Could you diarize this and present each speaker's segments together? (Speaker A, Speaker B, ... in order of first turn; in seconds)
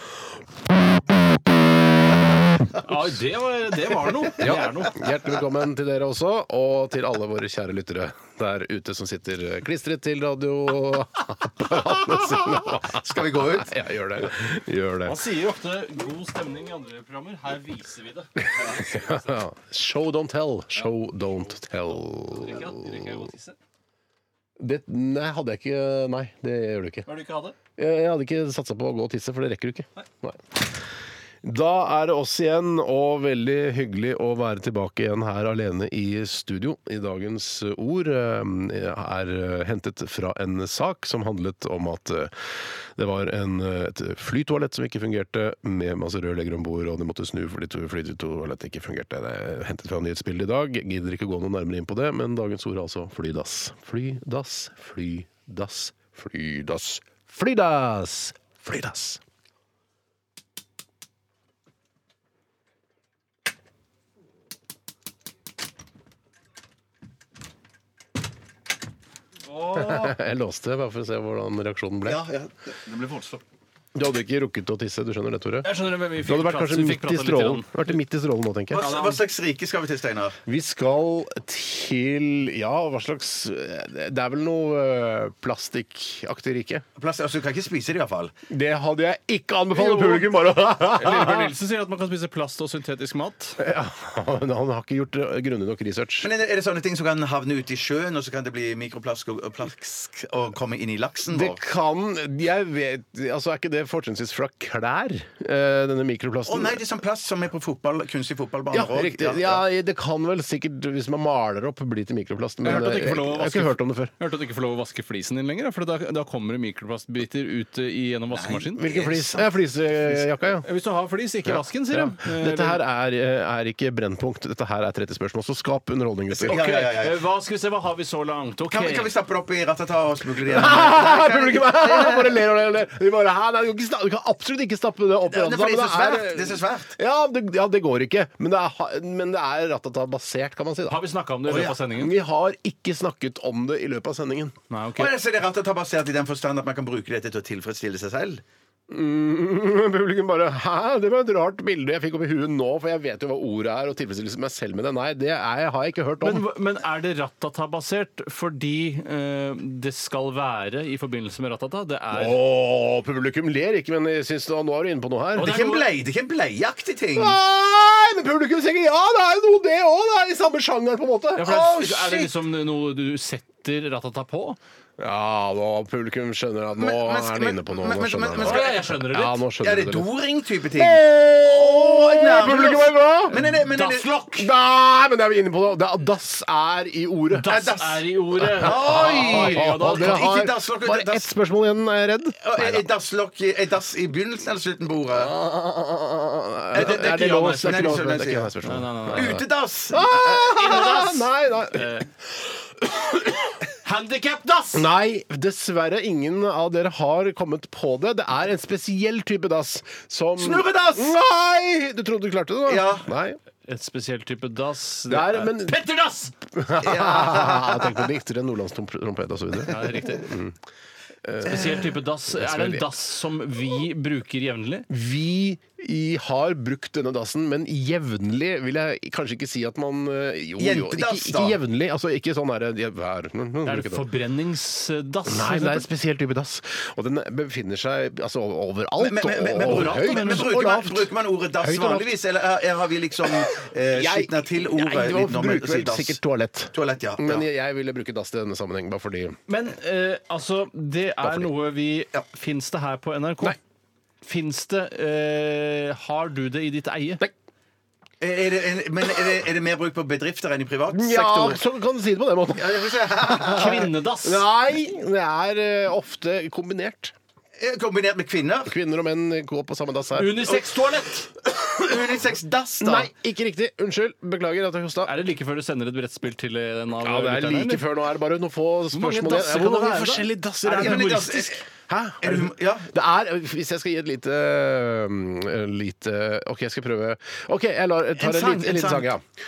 Speaker A: 2.8-5.1, 15.0-19.3, 22.1-23.6, 27.1-27.6, 69.5-70.2, 72.9-73.4, 75.6-77.7, 78.7-79.2, 89.7-90.3, 90.9-93.6, 112.6-118.9, 120.1-122.8, 126.4-129.1, 140.9-142.2, 144.7-145.1, 156.2-162.4, 165.3-165.9, 171.4-174.6, 178.4-179.4, 183.3-184.5, 187.3-190.3, 196.8-198.1, 198.6-199.4, 200.4-202.1, 203.8-204.9, 213.6-216.3, 219.6-220.3, 221.4-224.9, 233.6-235.9, 239.6-240.6, 249.5-253.6, 254.2-257.3, 263.4-264.4, 270.1-271.3, 275.0-277.8, 278.9-281.2
Speaker B: 4.4-15.2, 18.4-23.2, 24.6-27.1, 27.8-30.8, 31.4-59.2, 69.7-72.2, 73.9-78.8, 80.5-86.8, 88.5-91.5, 93.6-96.3, 101.3-106.8, 108.7-114.1, 118.8-120.7, 121.5-126.6, 130.4-144.6, 148.9-156.4, 162.1-165.6, 167.2-172.0, 175.0-180.1, 180.7-183.4, 184.4-187.6, 188.4-192.9, 195.1-203.6, 204.7-213.4, 215.1-220.6, 221.2-222.9, 224.9-234.1, 235.3-241.1, 241.6-242.1, 243.2-249.4, 251.2-251.5, 260.9-267.1, 268.6-270.5, 271.6-271.9, 272.8-275.1, 277.0-289.2
Speaker C: 12.9-13.8, 72.0-72.8, 78.7-80.4, 87.0-88.3, 96.2-101.6, 106.5-109.6, 118.3-119.4, 126.4-127.2, 128.7-132.4, 135.3-136.9, 145.0-148.4, 165.4-167.4, 171.9-172.3, 176.8-178.8, 179.6-184.1, 187.4-191.3, 192.4-195.3, 196.7-198.5, 199.1-201.1, 210.4-211.2, 212.7-213.1, 216.8-218.0, 230.6-231.6, 239.0-246.2, 246.7-247.4, 258.2-261.6, 262.6-263.9, 267.6-268.7, 271.6-273.1, 280.7-281.6, 282.2-282.9, 288.2-289.1